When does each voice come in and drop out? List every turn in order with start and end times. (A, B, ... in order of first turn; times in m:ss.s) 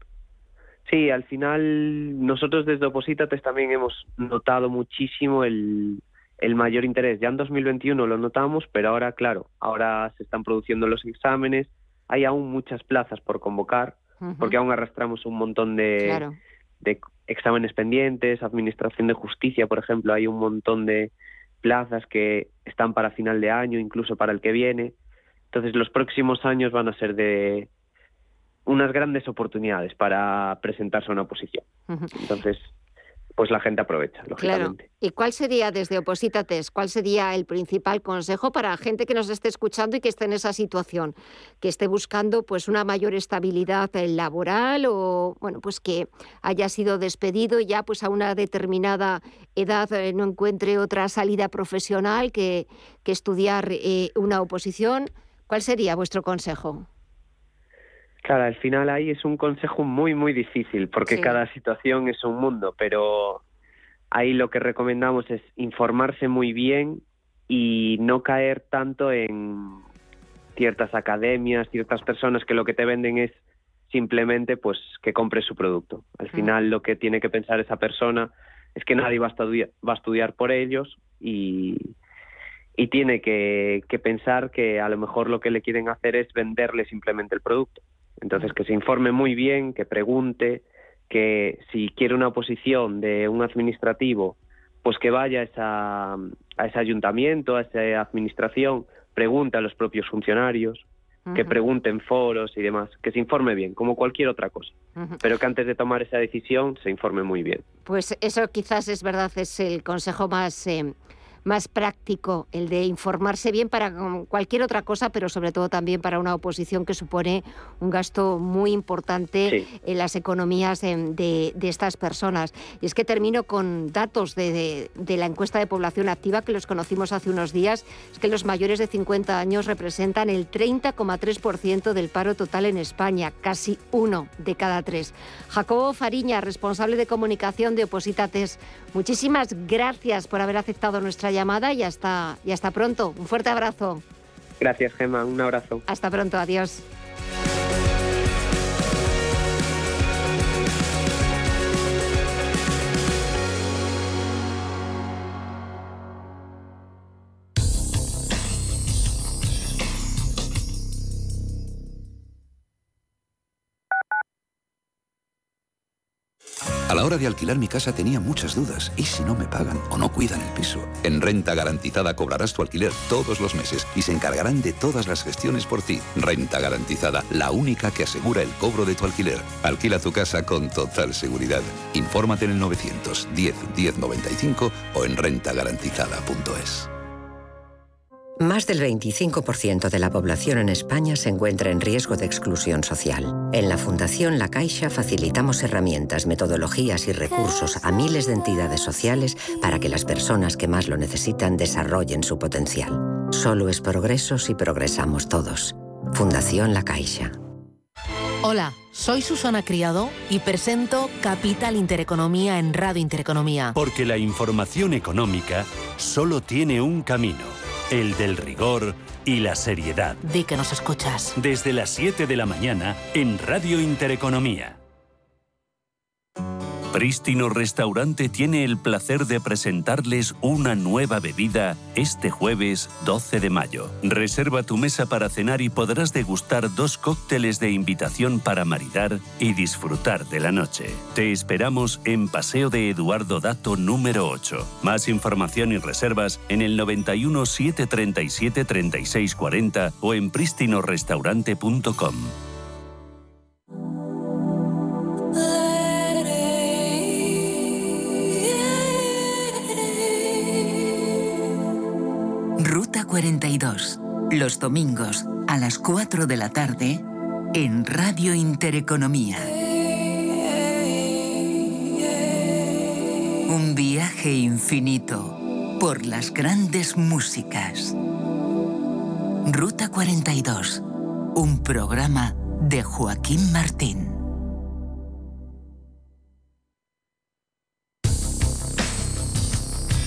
0:00.8-0:16.2 A
0:14.2-0:14.6 B
0:16.0-0:16.4 B
0:16.8-0:21.1 A
0:21.6-0:24.9 A
0:25.5-0:27.7 A
0:28.6-0:31.6 A
0:32.1-0:32.7 A
0:33.4-0:34.8 A
0:34.4-0:56.8 B
0:58.2-1:03.4 A
1:01.1-1:01.4 B
1:04.1-1:09.8 A
1:10.6-1:13.4 A
1:13.9-1:21.9 A
1:22.8-1:47.6 A
1:41.3-1:41.6 B
1:45.0-1:45.2 B
1:47.8-1:50.9 B
1:51.4-2:24.0 B
2:24.6-2:25.8 A
2:25.9-2:26.8 B
2:46.9-3:06.9 C
3:08.4-3:27.4 D
3:28.4-3:33.7 E
3:33.7-3:40.2 F
3:40.2-3:41.3 E
3:41.4-3:44.8 F
3:46.9-4:12.3 F
4:22.6-4:29.5 G
4:33.5-4:38.0 G
4:39.4-4:44.2 G